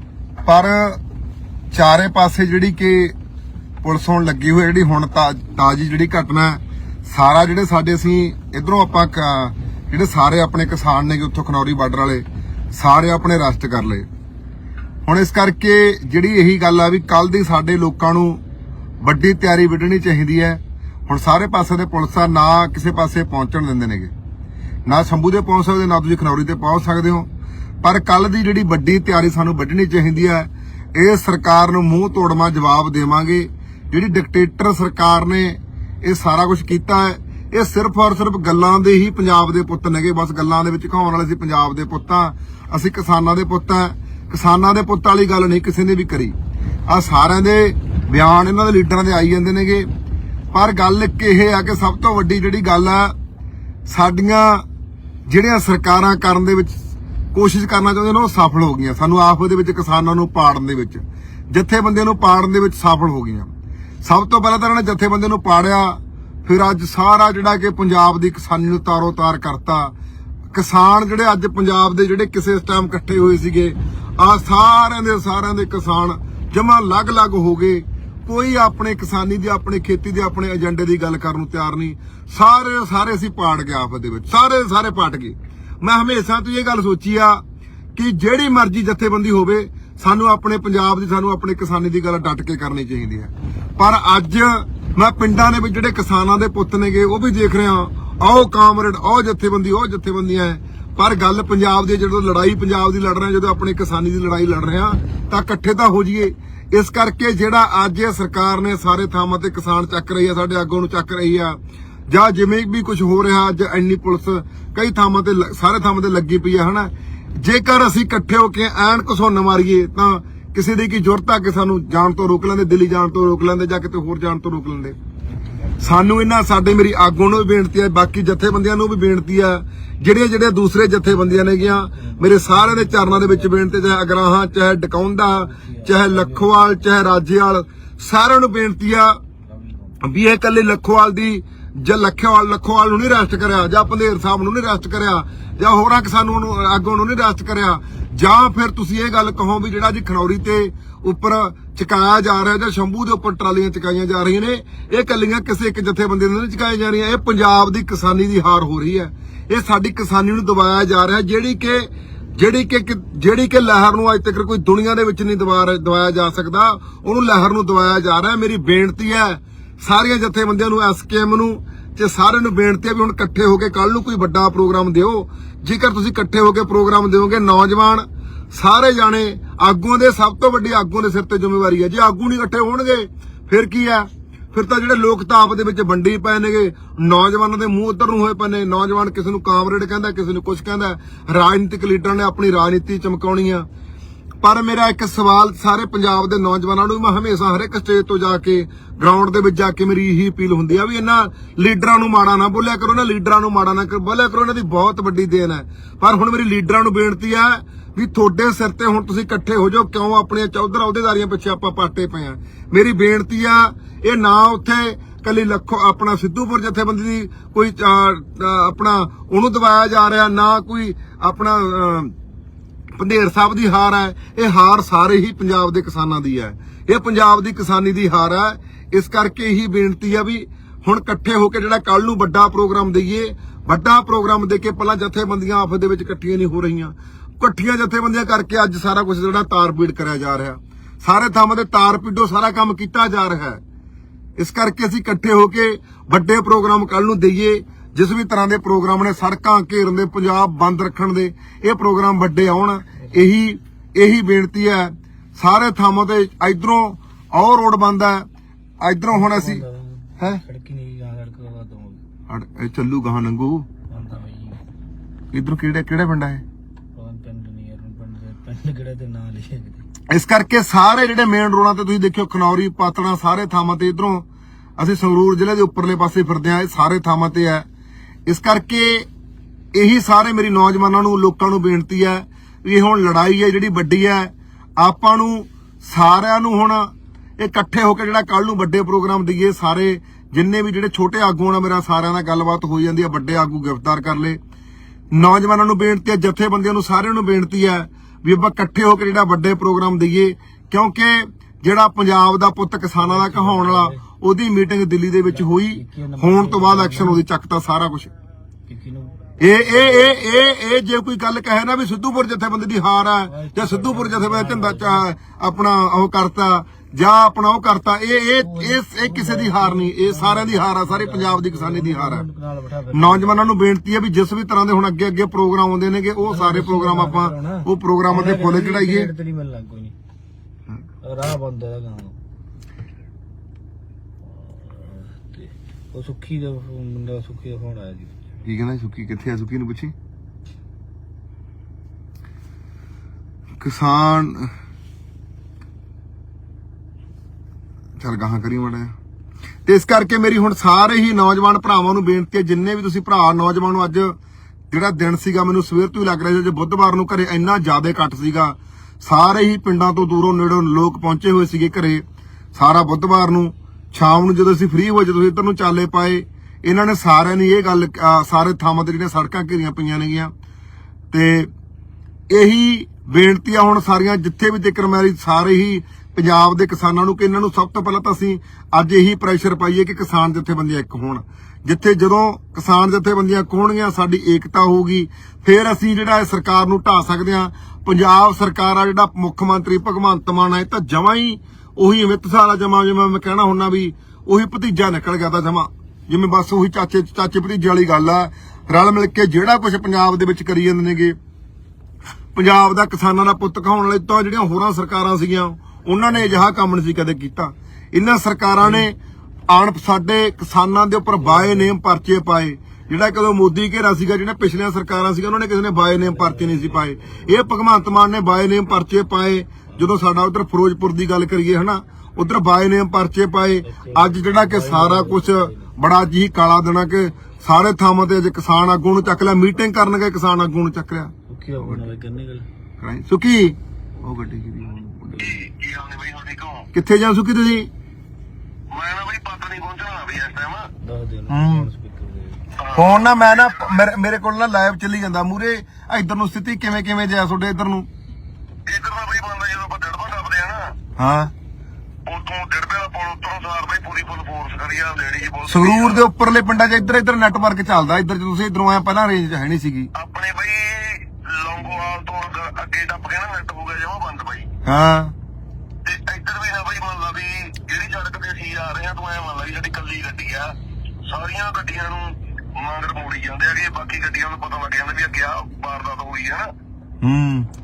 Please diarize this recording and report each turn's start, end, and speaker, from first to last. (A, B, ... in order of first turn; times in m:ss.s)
0:00.4-0:01.0 A
0:01.7-0:03.2 A
0:03.8-0:14.0 A
0:15.0-0:18.4 A
0:19.0-0:24.1 A
0:24.9-0:27.3 A
0:27.8-0:46.4 A
0:46.9-0:49.9 A
0:50.5-0:53.2 A
0:53.9-0:54.6 A
0:55.3-0:56.8 A
0:57.3-1:03.5 A
1:04.0-1:09.9 A
1:10.5-1:27.4 A
1:28.0-2:05.0 A
2:05.3-2:06.0 B
2:05.8-2:19.2 A
2:10.9-2:14.0 B
2:15.3-2:16.9 B
2:19.4-2:20.0 B
2:20.0-3:13.6 A
3:14.4-3:42.1 A
3:43.0-4:03.6 A
4:04.4-4:18.2 A
4:13.0-4:13.3 B
4:18.8-4:19.6 A
4:19.1-4:22.0 B
4:22.3-4:23.7 A
4:23.9-4:24.6 B
4:25.3-4:26.4 A
4:27.0-4:29.8 B
4:30.1-4:34.2 A
4:34.8-4:37.6 A
4:38.3-4:39.1 A
4:39.7-4:54.4 A
4:55.1-5:08.1 A
5:03.0-5:04.0 B
5:05.2-5:07.2 B
5:08.7-5:10.2 B
5:09.4-5:22.3 A
5:13.2-5:15.1 B
5:18.3-5:23.4 B
5:22.9-5:29.1 A
5:26.2-5:29.9 B
5:31.0-5:32.2 B
5:34.2-5:38.1 B
5:38.4-5:39.9 A
5:43.6-5:44.5 A
5:48.0-5:48.9 A
5:49.6-5:54.1 A
5:54.7-6:02.0 A
6:02.5-6:10.3 A
6:11.1-6:11.5 A
6:12.3-6:41.2 A
6:42.3-6:49.0 A
6:46.1-6:46.4 B
6:48.6-6:48.9 B
6:49.5-7:11.8 A
6:51.2-6:51.7 B
6:56.0-6:57.3 B
7:03.6-7:05.7 B
7:11.3-7:12.4 B
7:12.8-7:15.4 A
7:15.1-7:16.7 C
7:16.7-7:17.7 A
7:18.7-7:20.7 C
7:20.8-7:22.5 B
7:21.3-7:21.7 A
7:22.6-7:23.8 C
7:22.8-7:27.9 A
7:28.6-7:30.8 C
7:31.0-7:31.3 A
7:32.1-7:36.1 C
7:35.5-7:39.9 A
7:39.9-7:44.5 C
7:44.6-7:45.1 A
7:45.8-7:56.5 C
7:57.0-7:57.5 A